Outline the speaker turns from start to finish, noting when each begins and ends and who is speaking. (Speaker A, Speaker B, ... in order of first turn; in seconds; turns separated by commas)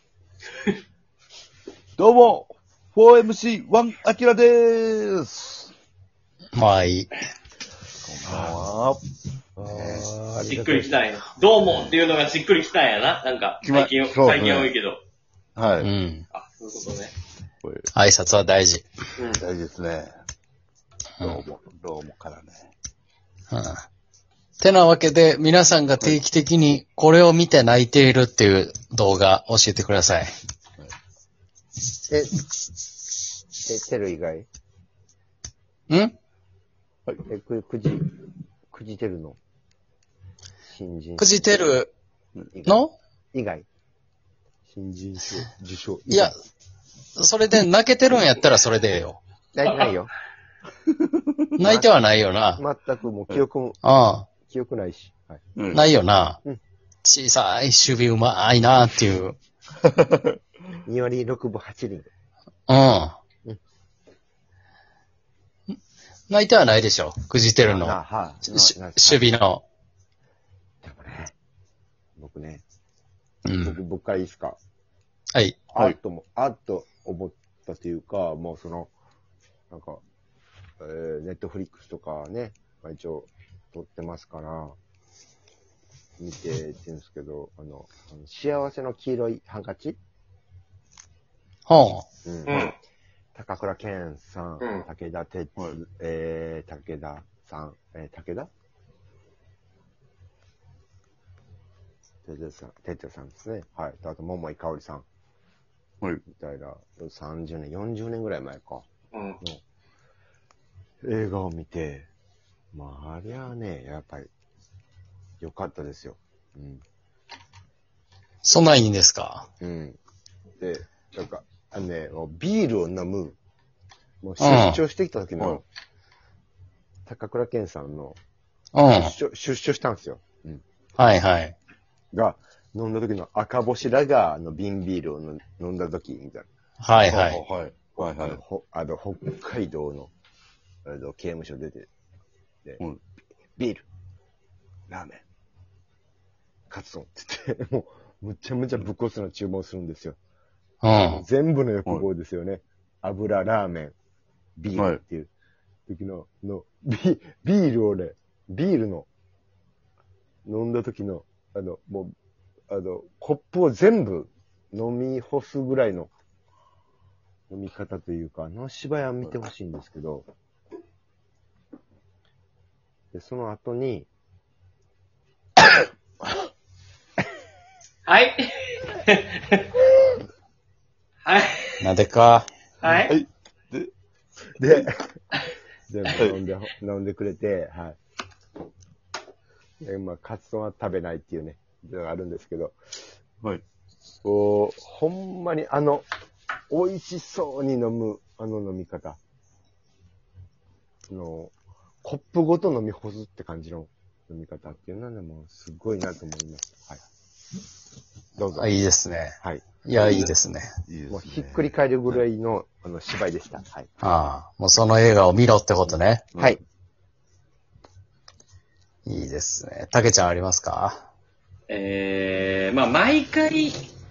Speaker A: 2.0-5.7, Speaker B: 6.5-7.1, Speaker A: 8.1-9.0, Speaker C: 8.2-8.5, Speaker A: 9.6-10.1, Speaker C: 9.6-10.8, Speaker D: 10.4-15.0, Speaker A: 13.6-14.7, Speaker A: 15.6-15.9, Speaker B: 15.8-16.2, Speaker D: 16.3-17.1, Speaker A: 17.6-17.9, Speaker B: 17.9-18.8, Speaker A: 19.3-20.1, Speaker A: 21.2-22.7, Speaker B: 23.5-23.8, Speaker B: 24.6-30.3, Speaker C: 32.1-32.4, Speaker C: 33.6-34.5, Speaker B: 35.9-36.1, Speaker C: 37.2-38.1, Speaker C: 38.7-39.4, Speaker C: 40.7-41.5, Speaker B: 41.2-41.9, Speaker C: 42.5-43.6, Speaker B: 42.6-42.9, Speaker C: 44.7-46.3, Speaker B: 47.2-49.2, Speaker C: 49.5-50.1, Speaker B: 51.6-52.6, Speaker C: 51.6-52.0, Speaker C: 52.5-53.8, Speaker B: 53.8-54.3, Speaker C: 54.4-55.4, Speaker A: 55.5-55.8, Speaker B: 55.7-56.4, Speaker B: 57.0-59.4, Speaker A: 59.8-60.3, Speaker C: 60.9-62.1, Speaker B: 62.7-63.1, Speaker B: 66.3-69.6, Speaker C: 67.7-69.3, Speaker C: 70.8-71.3, Speaker C: 72.2-72.6, Speaker B: 73.5-73.8, Speaker C: 73.6-74.6, Speaker C: 75.7-78.9, Speaker C: 79.7-80.0, Speaker C: 80.8-84.7, Speaker C: 86.2-90.0, Speaker B: 91.7-92.0, Speaker C: 92.2-92.7, Speaker D: 92.5-92.7, Speaker C: 93.3-98.5, Speaker D: 94.6-94.8, Speaker C: 102.2-105.0, Speaker C: 106.3-108.8, Speaker D: 109.1-109.4, Speaker C: 111.0-112.1, Speaker C: 112.7-114.3, Speaker C: 115.4-116.8, Speaker B: 118.4-119.5, Speaker C: 119.6-120.0, Speaker C: 120.6-123.4, Speaker C: 124.2-125.6, Speaker B: 124.4-124.8, Speaker C: 127.1-128.2, Speaker B: 128.7-129.1, Speaker C: 128.9-130.6, Speaker B: 131.0-131.5, Speaker C: 132.1-136.5, Speaker B: 136.8-137.4, Speaker A: 137.0-138.4, Speaker C: 138.0-140.1, Speaker C: 140.8-141.9, Speaker C: 143.6-143.8, Speaker A: 144.9-145.2, Speaker C: 146.7-150.2, Speaker B: 150.8-151.2, Speaker C: 151.1-153.9, Speaker C: 154.6-155.3, Speaker A: 154.7-155.0, Speaker C: 155.9-159.1, Speaker C: 160.4-162.1, Speaker C: 162.7-166.1, Speaker C: 167.5-170.2, Speaker C: 173.1-174.1, Speaker D: 178.1-179.6, Speaker D: 181.2-181.8, Speaker B: 181.8-182.4, Speaker D: 182.8-183.1, Speaker A: 182.9-183.9, Speaker C: 184.6-184.9, Speaker C: 185.9-187.9, Speaker C: 189.8-192.8, Speaker C: 194.2-196.0, Speaker C: 196.7-199.2, Speaker C: 201.1-207.0, Speaker C: 208.3-208.8, Speaker B: 208.5-210.7, Speaker C: 209.4-209.8, Speaker A: 209.9-210.3, Speaker A: 210.8-212.2, Speaker C: 211.1-213.9, Speaker B: 214.0-216.2, Speaker C: 216.3-216.6, Speaker B: 219.1-221.0, Speaker D: 221.7-223.8